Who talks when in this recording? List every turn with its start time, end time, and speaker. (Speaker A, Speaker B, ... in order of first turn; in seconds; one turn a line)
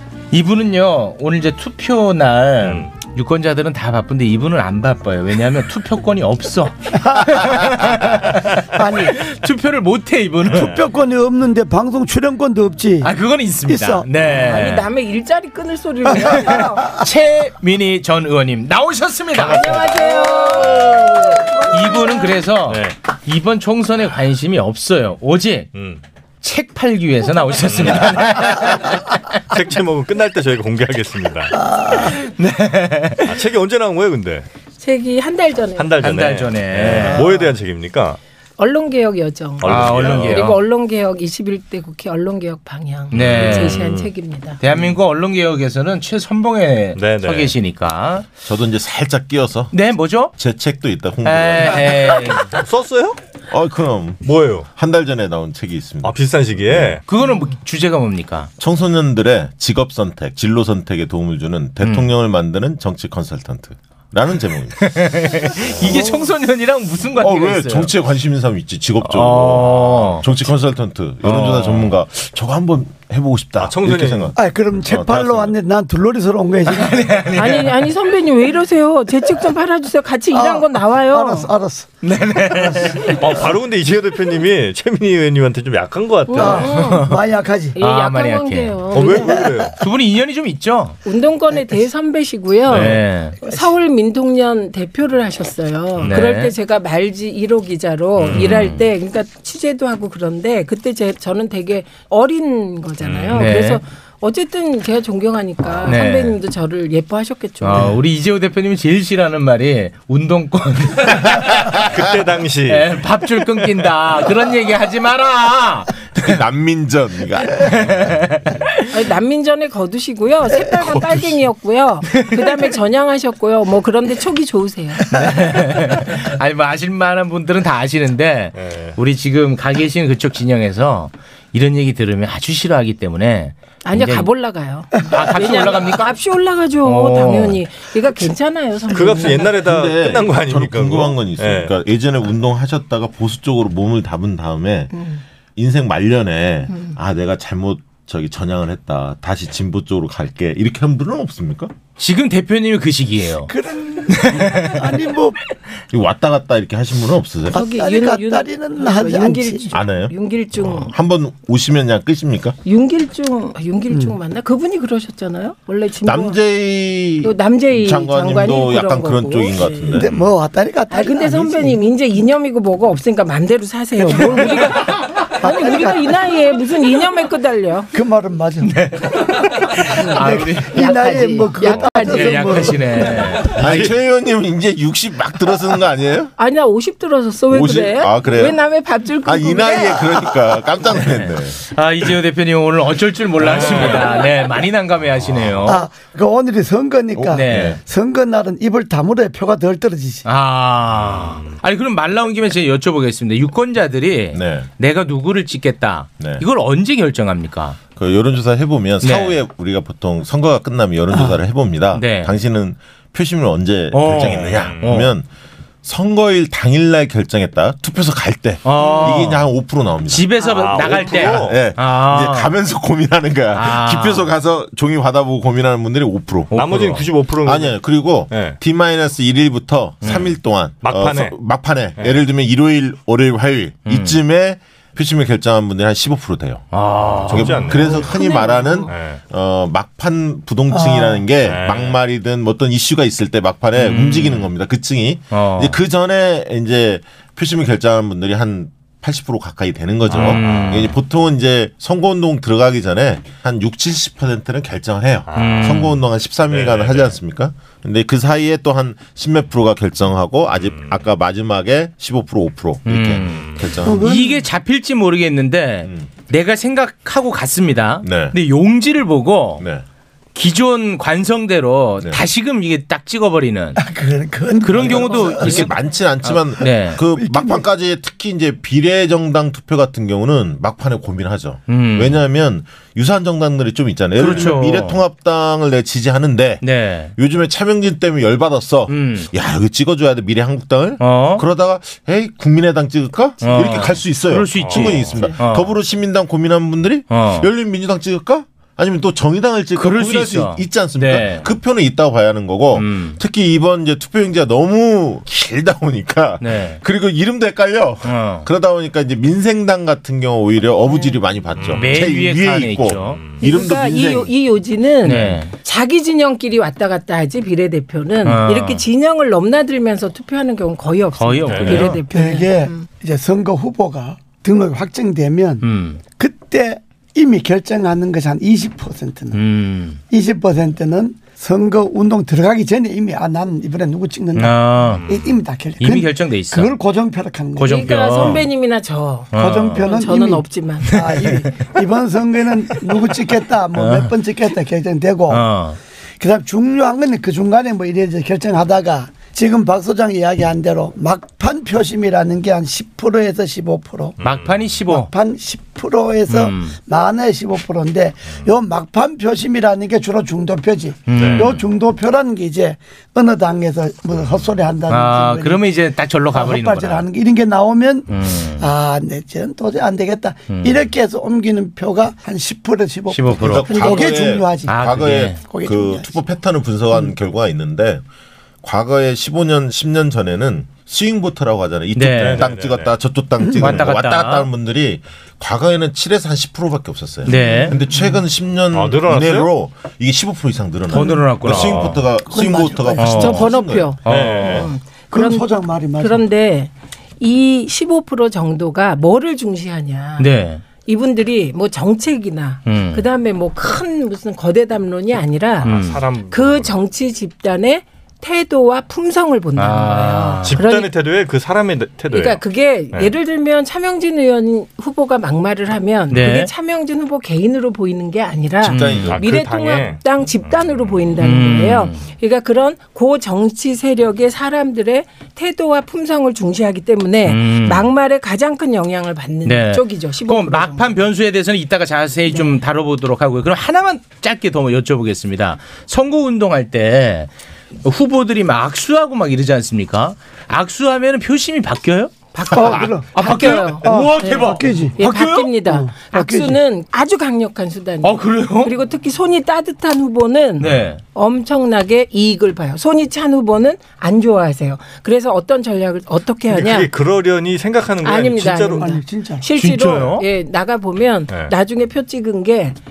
Speaker A: 0.3-8.4
Speaker B: 2.6-2.9
Speaker C: 8.7-9.2
Speaker A: 9.0-10.8
Speaker C: 10.5-13.1
Speaker A: 13.0-14.8
Speaker C: 13.7-14.1
Speaker D: 14.3-16.9
Speaker A: 17.0-19.9
Speaker D: 19.3-22.4
Speaker B: 20.5-21.1
Speaker A: 21.7-25.7
Speaker B: 22.7-22.9
Speaker B: 25.7-26.0
Speaker A: 26.4-29.0
Speaker B: 27.7-28.9
Speaker B: 29.5-31.6
Speaker C: 31.6-32.1
Speaker A: 32.0-33.3
Speaker B: 33.1-34.5
Speaker D: 34.8-36.0
Speaker B: 35.8-38.2
Speaker A: 36.0-37.3
Speaker D: 38.6-44.6
Speaker B: 39.6-40.5
Speaker A: 39.6-40.6
Speaker A: 43.1-43.8
Speaker B: 43.1-44.1
Speaker A: 44.6-48.3
Speaker B: 47.0-47.5
Speaker E: 48.4-49.7
Speaker A: 49.7-50.3
Speaker E: 50.3-52.0
Speaker A: 51.2-52.5
Speaker B: 52.5-53.2
Speaker E: 53.5-57.0
Speaker B: 54.2-54.7
Speaker B: 56.0-57.0
Speaker A: 57.1-58.5
Speaker E: 58.6-65.2
Speaker A: 64.8-67.9
Speaker C: 65.9-66.2
Speaker E: 67.2-75.5
Speaker A: 69.0-70.2
Speaker B: 73.6-74.3
Speaker C: 74.3-77.2
Speaker A: 76.7-77.7
Speaker D: 77.3-81.5
Speaker C: 80.3-81.9
Speaker A: 82.0-83.1
Speaker C: 82.5-83.1
Speaker B: 83.2-86.8
Speaker D: 86.3-87.1
Speaker C: 86.3-87.8
Speaker A: 86.8-87.2
Speaker D: 87.8-89.4
Speaker A: 87.8-88.8
Speaker B: 88.9-89.7
Speaker A: 89.8-91.0
Speaker D: 91.0-107.9
Speaker A: 92.7-93.4
Speaker A: 96.0-96.5
Speaker B: 98.2-98.5
Speaker A: 98.2-98.8
Speaker B: 103.0-103.3
Speaker A: 103.3-103.8
Speaker A: 105.8-106.4
Speaker A: 107.6-111.5
Speaker B: 111.7-113.0
Speaker A: 112.7-116.1
Speaker E: 116.1-118.1
Speaker A: 117.6-118.9
Speaker D: 118.9-125.0
Speaker A: 125.1-134.3
Speaker B: 128.6-128.9
Speaker D: 133.8-139.7
Speaker A: 135.0-136.1
Speaker A: 136.8-137.6
Speaker B: 138.9-141.7
Speaker E: 139.5-144.9
Speaker D: 144.9-145.2
Speaker E: 145.6-151.7
Speaker A: 152.0-153.5
Speaker C: 153.5-155.4
Speaker A: 154.1-154.7
Speaker E: 155.9-157.6
Speaker D: 157.5-160.9
Speaker C: 157.5-159.7
Speaker E: 159.7-162.6
Speaker D: 162.6-166.4
Speaker C: 163.9-164.2
Speaker E: 166.0-170.1
Speaker D: 167.2-169.9
Speaker C: 169.9-171.8
Speaker D: 170.9-177.9
Speaker C: 174.0-174.7
Speaker C: 175.4-176.1
Speaker C: 177.9-178.8
Speaker A: 178.6-180.8
Speaker C: 180.0-183.0
Speaker D: 180.7-183.0
Speaker A: 181.9-183.9
Speaker E: 183.5-186.3
Speaker D: 186.4-190.4
Speaker E: 187.5-188.6
Speaker E: 189.2-191.6
Speaker A: 190.9-195.8
Speaker B: 193.4-194.1
Speaker C: 195.7-200.2
Speaker E: 197.2-197.8
Speaker A: 197.3-197.8
Speaker A: 200.2-207.8
Speaker B: 201.1-201.4
Speaker E: 204.3-204.7
Speaker E: 207.9-215.2
Speaker A: 209.0-209.3
Speaker C: 211.1-211.4
Speaker A: 211.9-212.3
Speaker A: 213.9-215.1
Speaker B: 214.2-214.9
Speaker E: 215.8-226.6
Speaker A: 218.6-219.4
Speaker A: 220.1-222.5
Speaker B: 220.5-221.6
Speaker A: 223.5-224.3
Speaker A: 226.5-227.0
Speaker B: 226.5-227.8
Speaker E: 227.4-236.7
Speaker B: 228.3-228.6
Speaker B: 230.8-231.3
Speaker A: 233.8-234.2
Speaker A: 236.7-237.7
Speaker E: 237.2-264.0
Speaker B: 237.3-238.1
Speaker D: 238.0-238.9
Speaker B: 238.9-239.2
Speaker C: 240.7-241.2
Speaker B: 241.4-242.0
Speaker A: 243.8-244.5
Speaker A: 245.3-245.8
Speaker A: 250.1-250.9
Speaker B: 250.3-250.6
Speaker B: 255.3-255.8
Speaker A: 255.3-255.9
Speaker B: 256.5-257.1
Speaker A: 262.8-269.6
Speaker C: 263.8-264.4
Speaker E: 268.0-268.4
Speaker A: 270.3-273.8
Speaker C: 273.8-275.7
Speaker A: 274.6-277.0
Speaker E: 274.8-286.6
Speaker C: 277.0-277.6
Speaker A: 281.7-282.2
Speaker A: 284.1-285.0
Speaker A: 286.6-287.1
Speaker E: 287.1-314.3
Speaker A: 288.9-289.3
Speaker A: 291.0-291.4
Speaker A: 293.4-295.7
Speaker B: 294.6-295.1
Speaker A: 297.1-297.5
Speaker A: 299.8-301.5
Speaker A: 302.8-303.2
Speaker A: 306.4-306.8
Speaker A: 308.0-308.5
Speaker A: 311.7-313.2
Speaker D: 313.4-322.9
Speaker A: 315.0-315.5
Speaker A: 318.2-318.8
Speaker A: 321.1-322.0
Speaker B: 321.5-321.9
Speaker C: 322.1-325.6
Speaker A: 325.6-326.0
Speaker C: 326.1-329.4
Speaker A: 329.3-330.0
Speaker C: 330.1-337.8
Speaker A: 334.3-335.1
Speaker A: 335.8-336.7
Speaker A: 337.6-338.4
Speaker D: 337.6-341.0
Speaker A: 339.3-339.9
Speaker C: 339.4-345.4
Speaker A: 340.9-341.5
Speaker A: 343.7-344.1
Speaker A: 345.3-345.8
Speaker C: 346.2-354.1
Speaker B: 354.2-354.7
Speaker A: 354.2-355.1
Speaker C: 354.9-365.6
Speaker A: 356.3-356.7
Speaker A: 361.1-361.6
Speaker B: 361.1-361.6
Speaker A: 364.9-367.1
Speaker C: 366.3-374.8
Speaker A: 368.1-368.7
Speaker A: 370.5-370.8
Speaker A: 373.1-373.9
Speaker E: 373.4-378.0
Speaker A: 374.7-375.4
Speaker C: 375.4-376.1
Speaker E: 378.6-393.9
Speaker A: 381.9-382.5
Speaker B: 382.2-382.9
Speaker C: 383.4-383.8
Speaker A: 383.6-384.5
Speaker A: 387.2-387.8
Speaker C: 387.5-388.1
Speaker B: 388.7-389.5
Speaker A: 390.9-392.0
Speaker C: 392.2-393.2
Speaker A: 393.0-393.4
Speaker D: 393.1-400.3
Speaker A: 394.0-394.7
Speaker B: 394.1-394.7
Speaker C: 395.1-396.2
Speaker A: 400.2-400.6
Speaker D: 400.8-405.8
Speaker A: 402.6-403.0
Speaker B: 405.6-406.7
Speaker A: 405.6-406.0
Speaker D: 406.3-410.9
Speaker A: 409.6-410.6
Speaker B: 410.4-413.1
Speaker D: 412.1-431.0
Speaker A: 416.1-416.5
Speaker A: 418.6-419.1
Speaker E: 418.6-419.2
Speaker B: 419.1-420.0
Speaker A: 421.2-422.0
Speaker A: 427.2-427.9
Speaker A: 429.4-437.3
Speaker A: 437.8-445.5
Speaker D: 442.3-456.9
Speaker C: 442.5-445.0
Speaker C: 445.6-446.6
Speaker A: 448.0-448.7
Speaker A: 450.6-451.0
Speaker B: 456.5-458.9
Speaker D: 458.0-462.8
Speaker C: 458.8-459.4
Speaker A: 459.5-460.2